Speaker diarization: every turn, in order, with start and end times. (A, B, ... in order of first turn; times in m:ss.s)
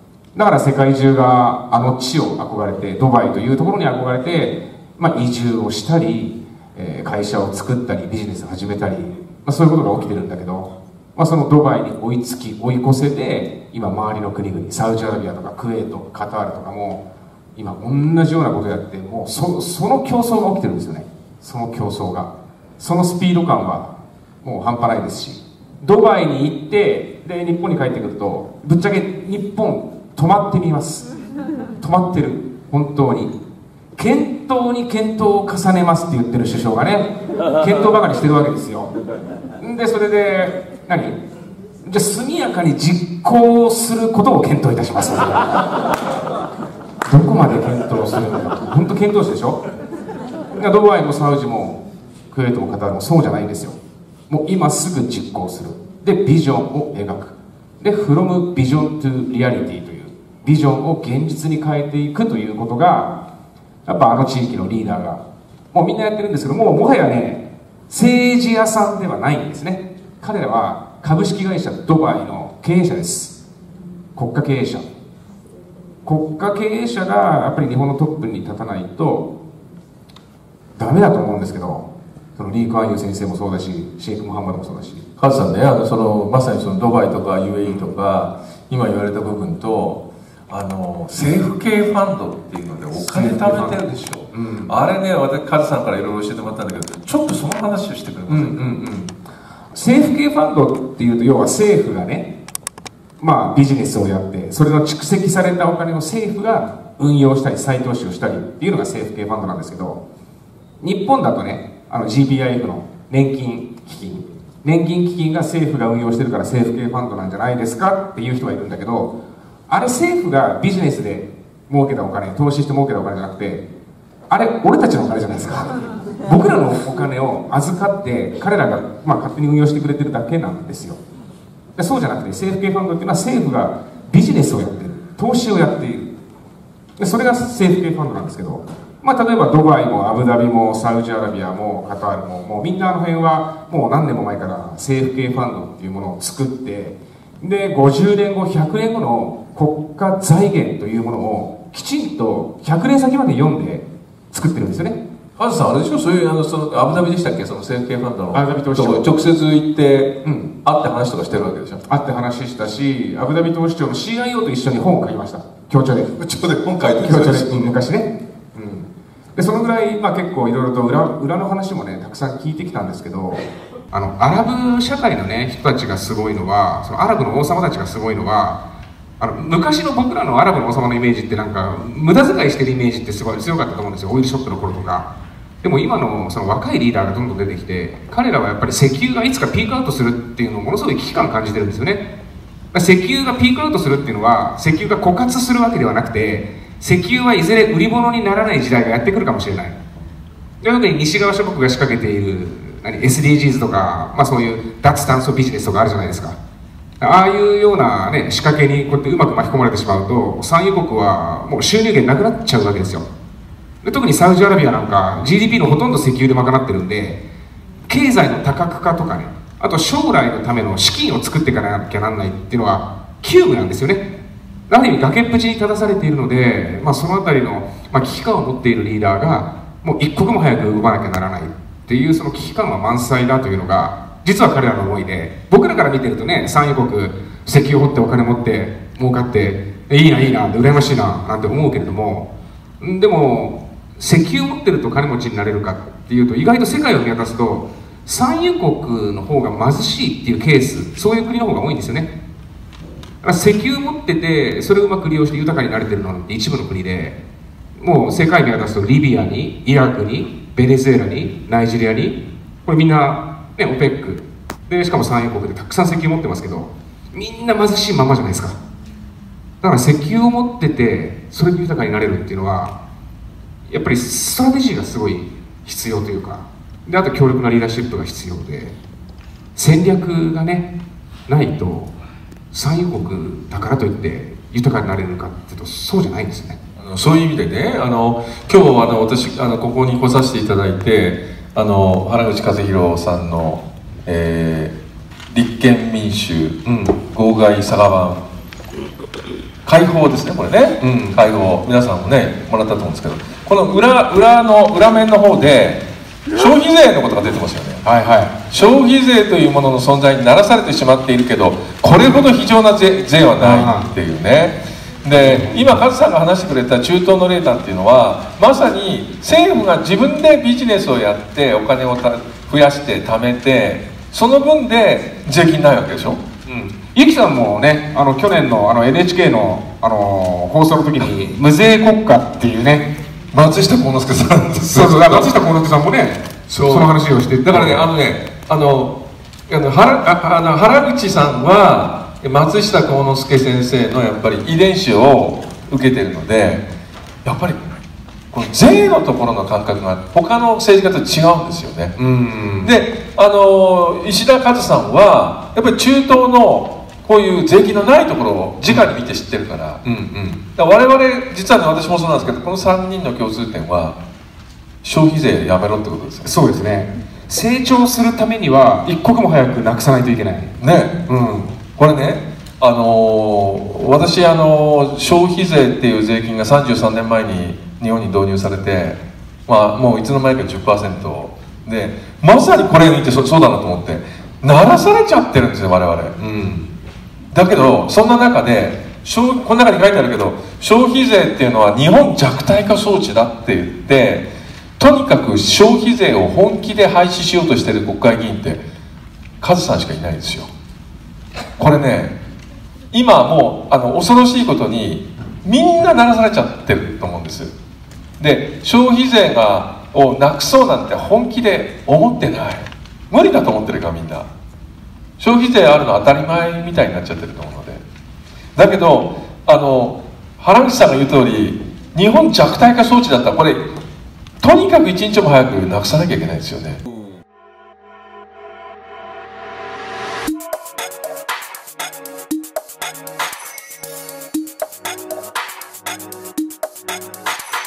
0:00.3-0:17.0 A
0:17.6-0:31.1 A
0:31.8-0:33.3 A
0:34.0-0:38.9 A
0:39.6-0:41.2 A
0:41.8-0:45.6 A
0:47.1-0:49.6 A
0:50.6-0:53.8 A
0:54.3-1:03.2 A
1:03.8-1:13.4 A
1:14.1-1:14.8 A
1:16.0-1:19.3 A
1:20.8-1:25.0 A
1:25.2-1:38.7 B
1:33.0-1:34.7 A
1:38.3-1:39.1 A
1:39.7-1:42.3 A
1:43.2-1:50.0 A
1:50.8-1:59.1 A
1:59.7-2:03.6 A
2:04.3-2:05.7 A
2:06.2-2:11.0 A
2:11.8-2:16.1 A
2:17.0-2:35.0 A
2:35.4-2:41.8 B
2:38.3-2:39.1 A
2:40.2-2:40.5 A
2:41.9-2:46.1 A
2:46.2-2:47.8 B
2:47.0-2:58.6 A
2:59.2-3:05.1 A
3:05.6-3:12.0 A
3:12.7-3:19.8 A
3:20.6-3:26.4 A
3:27.0-3:33.1 A
3:33.8-3:37.2 A
3:37.9-3:44.1 A
3:44.7-4:02.3 A
4:02.8-4:12.1 A
4:13.2-4:17.2 A
4:17.8-4:28.6 A
4:29.6-4:32.8 A
4:33.7-4:38.8 A
4:39.6-4:40.7 A
4:41.3-4:41.9 A
4:42.5-4:46.6 A
4:46.8-4:54.8 B
4:55.3-4:58.2 B
4:56.6-4:56.9 A
4:59.6-5:07.8 B
5:00.8-5:01.2 A
5:07.8-5:08.3 A
5:08.5-5:26.2 B
5:13.4-5:13.9 A
5:15.1-5:15.8 A
5:26.4-5:32.9 A
5:33.3-5:35.3 B
5:34.7-5:37.9 A
5:36.5-5:36.9 B
5:37.4-5:46.6 B
5:47.2-5:47.6 B
5:48.3-5:52.0 B
5:52.0-5:52.7 A
5:52.6-5:59.8 B
5:59.8-6:00.4 A
6:00.6-6:04.0 B
6:04.8-6:06.3 B
6:06.2-6:11.6 A
6:10.6-6:11.0 B
6:11.8-6:26.2 B
6:26.2-6:26.7 A
6:27.3-6:38.6 B
6:39.4-6:40.5 B
6:41.6-6:42.2 B
6:42.9-6:47.6 B
6:48.2-6:54.3 B
6:55.2-6:57.8 B
6:58.6-7:03.6 B
7:04.4-7:06.8 B